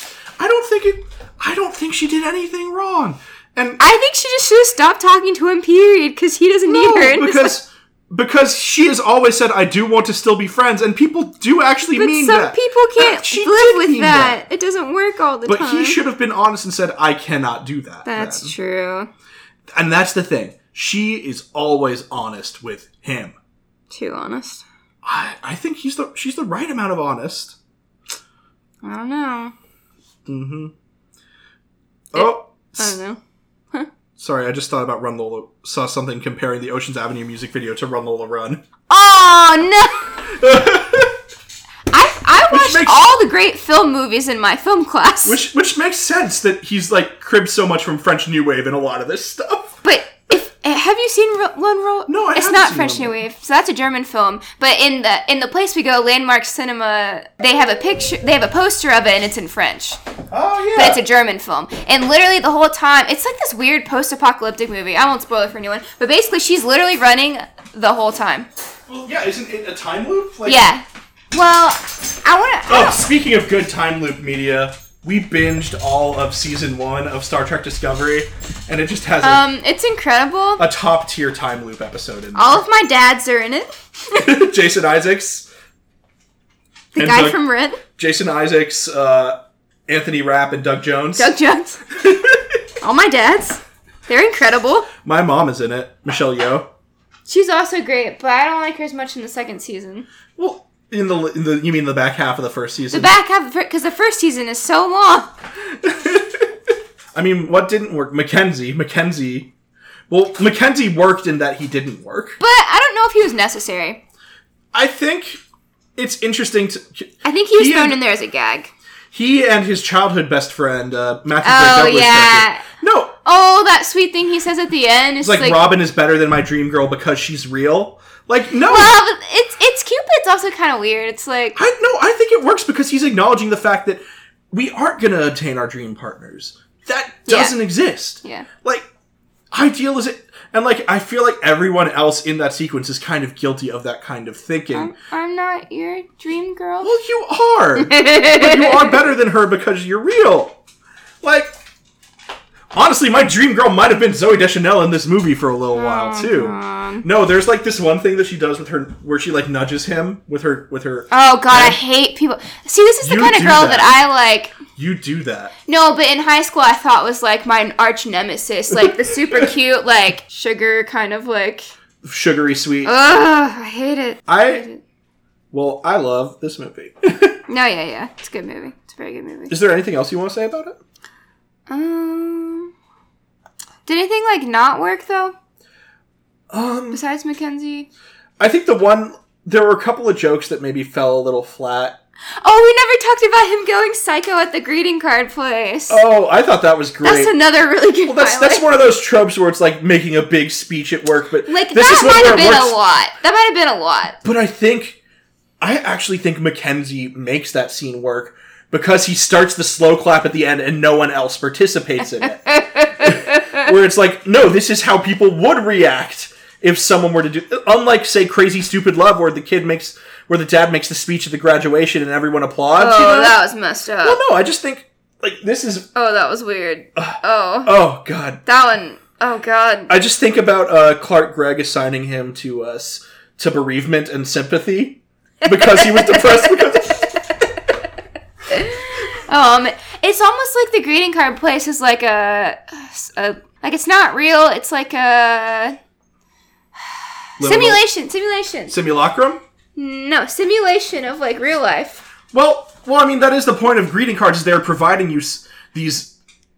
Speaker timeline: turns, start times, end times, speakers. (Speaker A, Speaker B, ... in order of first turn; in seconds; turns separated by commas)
Speaker A: 0.4-3.8, Speaker B: 3.8-7.5, Speaker A: 6.7-14.4, Speaker B: 11.9-16.0, Speaker A: 15.5-18.6, Speaker B: 18.1-19.1, Speaker A: 19.7-23.4, Speaker B: 23.9-24.6, Speaker A: 25.0-27.6, Speaker B: 28.8-29.5, Speaker A: 30.3-30.7, Speaker A: 32.1-33.0, Speaker B: 32.1-33.2, Speaker A: 34.2-38.6, Speaker B: 38.9-40.1, Speaker A: 40.3-41.2, Speaker B: 41.9-45.4, Speaker A: 42.5-43.0, Speaker A: 45.2-49.8, Speaker B: 49.8-60.0, Speaker A: 52.1-53.2, Speaker A: 60.3-61.0, Speaker B: 60.8-68.5, Speaker A: 68.9-70.7, Speaker B: 70.5-73.0, Speaker A: 72.7-79.5, Speaker B: 79.2-80.6, Speaker A: 80.6-82.6, Speaker B: 82.3-84.2, Speaker A: 84.2-85.5, Speaker B: 86.9-87.8, Speaker A: 87.0-91.3, Speaker B: 91.2-91.8, Speaker A: 91.9-92.6, Speaker B: 92.8-94.9, Speaker A: 95.0-96.7, Speaker B: 97.3-100.1, Speaker A: 100.4-103.1, Speaker B: 102.9-105.3, Speaker A: 105.6-109.5, Speaker A: 110.1-112.4, Speaker B: 112.4-114.0, Speaker A: 114.7-115.4, Speaker A: 116.0-118.0, Speaker B: 117.2-118.7, Speaker A: 119.1-123.2, Speaker B: 121.4-122.7, Speaker B: 123.2-125.6, Speaker A: 125.2-129.0, Speaker B: 128.7-131.6, Speaker A: 131.6-138.9, Speaker B: 137.3-137.6, Speaker A: 139.5-144.9, Speaker B: 144.7-146.9, Speaker A: 146.8-150.6, Speaker B: 147.8-149.0, Speaker A: 151.2-151.6, Speaker A: 152.7-161.8, Speaker B: 155.7-157.1, Speaker B: 161.1-164.6, Speaker A: 163.0-164.0, Speaker A: 164.7-165.5, Speaker B: 165.7-171.7, Speaker A: 168.7-169.5, Speaker A: 172.0-172.9, Speaker B: 172.8-174.8, Speaker A: 174.3-174.7, Speaker A: 175.5-177.4, Speaker B: 177.5-179.6, Speaker A: 179.5-180.8, Speaker B: 181.7-182.7, Speaker B: 183.9-185.3, Speaker A: 186.5-187.0, Speaker B: 186.9-187.9, Speaker A: 188.4-192.0, Speaker B: 192.4-196.0, Speaker A: 195.9-197.3, Speaker B: 197.0-198.7, Speaker A: 198.0-202.8, Speaker B: 201.5-204.2, Speaker A: 204.2-205.0, Speaker A: 205.6-212.4, Speaker B: 212.2-213.7, Speaker A: 213.0-223.4, Speaker B: 222.8-224.2, Speaker A: 224.0-225.9, Speaker B: 225.9-227.8, Speaker A: 227.0-228.4, Speaker B: 228.4-229.9, Speaker A: 229.9-237.1, Speaker B: 235.4-237.2, Speaker B: 238.5-245.8, Speaker B: 247.4-248.7, Speaker A: 247.4-247.8, Speaker A: 248.7-249.4, Speaker B: 249.8-252.1, Speaker A: 252.3-256.1